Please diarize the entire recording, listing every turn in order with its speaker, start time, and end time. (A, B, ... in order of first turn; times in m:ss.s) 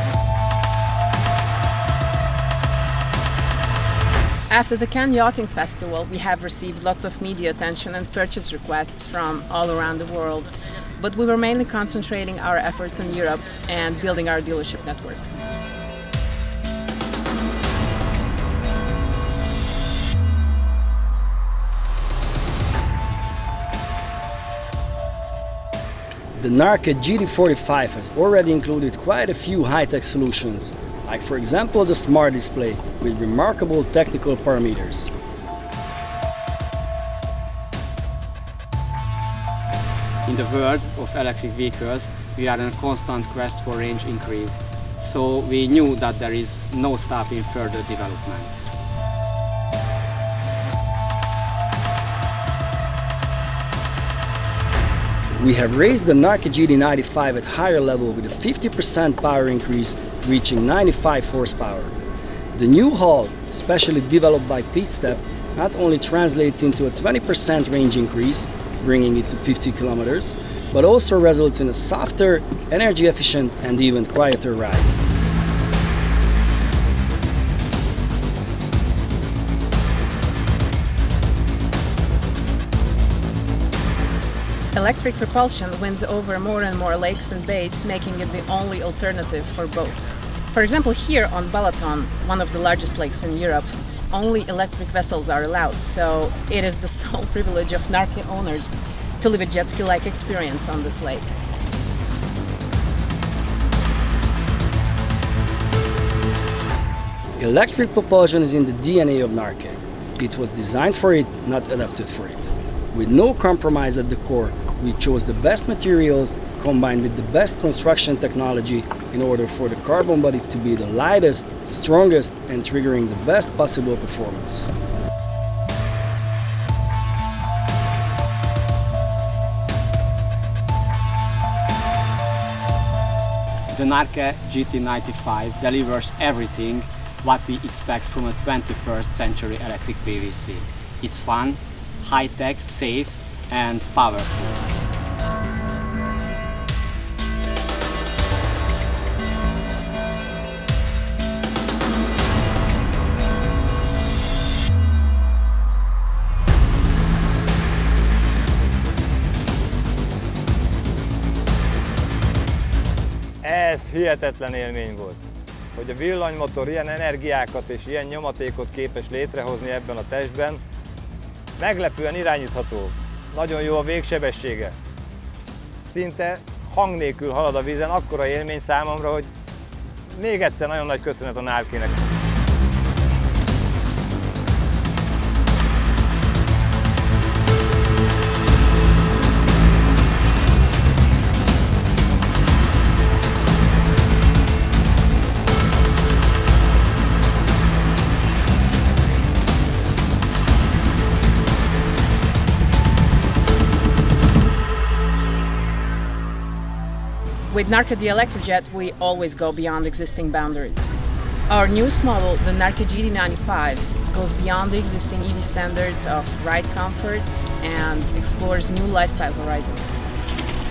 0:04.5-0:15.2 A
0:26.3-0:35.1 B
0:40.2-0:48.6 C
0:55.4-1:02.0 B
1:02.5-1:14.9 B
1:24.7-1:41.3 A
1:47.4-2:04.7 B
2:13.7-2:24.6 C
2:43.4-2:45.2 D
2:45.8-2:50.6 D
2:51.6-2:54.7 D
2:55.9-2:59.3 D
3:00.1-3:02.0 D
3:27.5-3:30.9 A
3:31.5-3:40.0 A